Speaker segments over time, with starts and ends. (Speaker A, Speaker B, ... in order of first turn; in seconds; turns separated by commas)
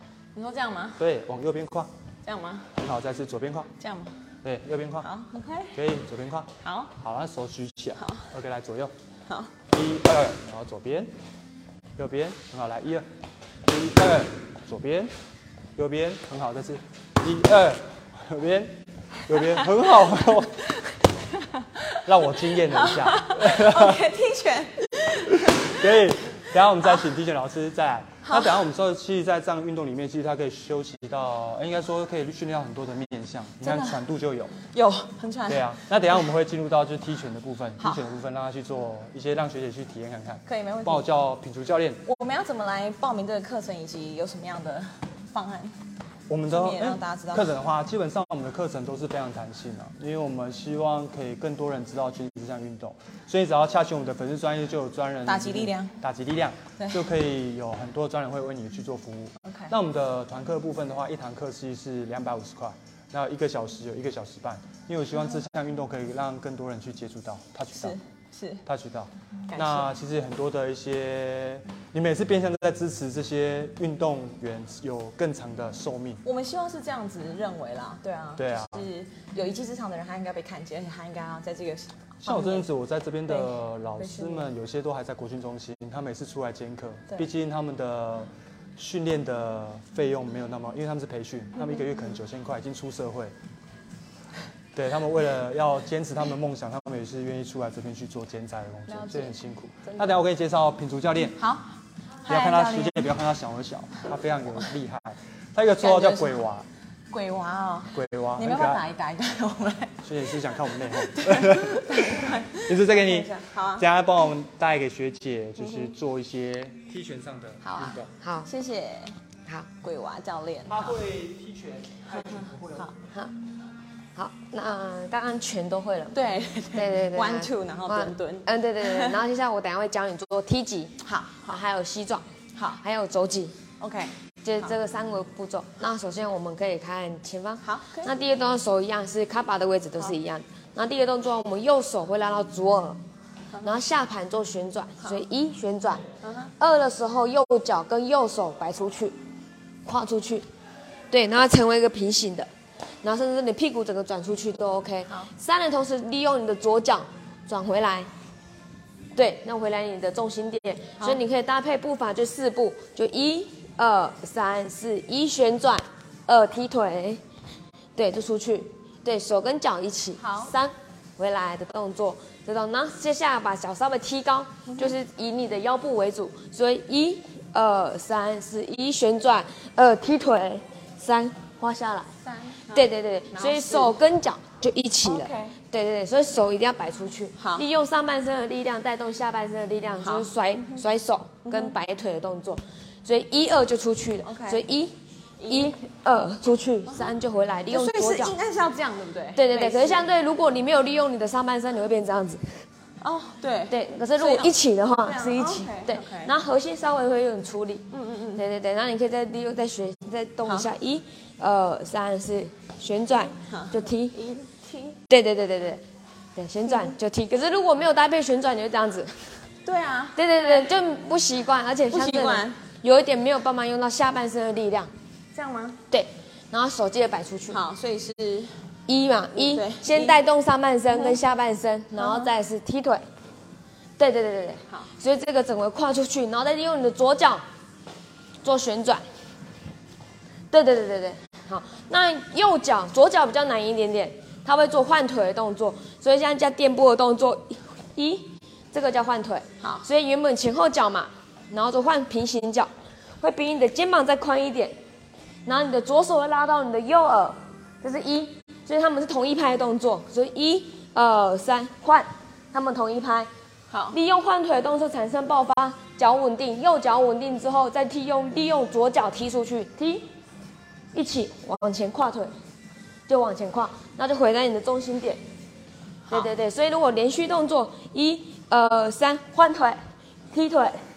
Speaker A: 0.3-1.0, Speaker B: 1.0-1.9, Speaker A: 2.3-2.8, Speaker B: 2.8-3.7, Speaker A: 3.8-4.1, Speaker B: 4.4-5.1, Speaker A: 5.0-5.8, Speaker B: 5.7-8.9, Speaker A: 6.6-6.9, Speaker A: 8.0-8.3, Speaker A: 9.3-9.5, Speaker B: 9.7-11.1, Speaker B: 12.0-13.1, Speaker B: 13.7-15.1, Speaker B: 15.8-20.7, Speaker A: 21.3-22.1, Speaker B: 22.1-24.1, Speaker A: 22.6-26.1, Speaker B: 25.3-34.6, Speaker A: 28.2-28.6, Speaker A: 33.6-34.0, Speaker A: 34.7-35.9, Speaker B: 35.5-42.0, Speaker A: 37.8-38.1, Speaker A: 40.5-41.1, Speaker A: 42.0-45.8, Speaker B: 46.3-68.0, Speaker A: 46.5-47.5, Speaker A: 55.2-56.0, Speaker A: 56.8-57.1, Speaker A: 59.4-59.7, Speaker A: 67.8-68.7, Speaker B: 68.7-76.2, Speaker A: 69.5-70.0, Speaker A: 76.2-82.7, Speaker B: 78.4-78.9, Speaker B: 82.2-93.3, Speaker A: 83.3-84.5, Speaker B: 94.7-101.4, Speaker A: 98.9-100.2, Speaker A: 101.4-103.1, Speaker B: 102.3-106.7, Speaker A: 105.8-106.4, Speaker A: 107.1-110.1, Speaker B: 107.9-108.8, Speaker B: 110.0-118.1, Speaker A: 110.9-113.9, Speaker A: 115.6-115.9, Speaker A: 117.6-119.2, Speaker C: 118.2-118.5, Speaker A: 119.8-121.0, Speaker B: 120.7-122.9, Speaker A: 122.3-122.9, Speaker C: 124.2-126.2, Speaker A: 126.1-129.2, Speaker C: 126.7-131.0, Speaker A: 131.0-131.6, Speaker C: 131.5-132.2, Speaker A: 132.6-132.8, Speaker C: 132.8-133.6, Speaker A: 133.8-134.8, Speaker C: 134.4-143.0, Speaker A: 137.6-138.1, Speaker C: 143.6-146.1, Speaker A: 146.2-146.5, Speaker C: 146.6-149.2, Speaker C: 149.9-150.4, Speaker C: 151.1-152.5, Speaker C: 153.0-158.1, Speaker C: 159.2-167.2, Speaker C: 168.0-182.1, Speaker A: 170.2-170.5, Speaker A: 182.2-183.9, Speaker C: 182.7-194.9, Speaker A: 185.0-185.6, Speaker A: 187.4-187.7, Speaker A: 190.0-190.3, Speaker A: 191.4-191.7, Speaker A: 194.2-194.6, Speaker A: 195.4-195.7, Speaker C: 195.5-198.4, Speaker A: 197.7-200.1, Speaker C: 199.4-202.6, Speaker A: 203.0-204.5, Speaker C: 203.7-214.2, Speaker A: 205.1-206.3, Speaker A: 207.9-208.4, Speaker A: 210.4-210.7, Speaker A: 213.5-215.0, Speaker C: 215.1-215.8, Speaker C: 216.4-219.3, Speaker A: 219.7-220.7, Speaker C: 220.2-224.9, Speaker A: 221.9-222.6, Speaker A: 225.3-225.8, Speaker C: 225.9-227.6, Speaker A: 227.5-228.5, Speaker C: 228.9-233.0, Speaker A: 229.3-230.2, Speaker A: 230.9-231.2, Speaker A: 232.0-232.3, Speaker C: 234.0-237.4, Speaker C: 238.4-239.0, Speaker C: 240.5-252.7, Speaker C: 253.2-254.8, Speaker C: 255.5-263.3, Speaker A: 263.7-264.0, Speaker C: 263.9-270.1, Speaker C: 270.9-272.3, Speaker C: 273.1-275.2, Speaker C: 276.1-279.8, Speaker C: 280.3-280.8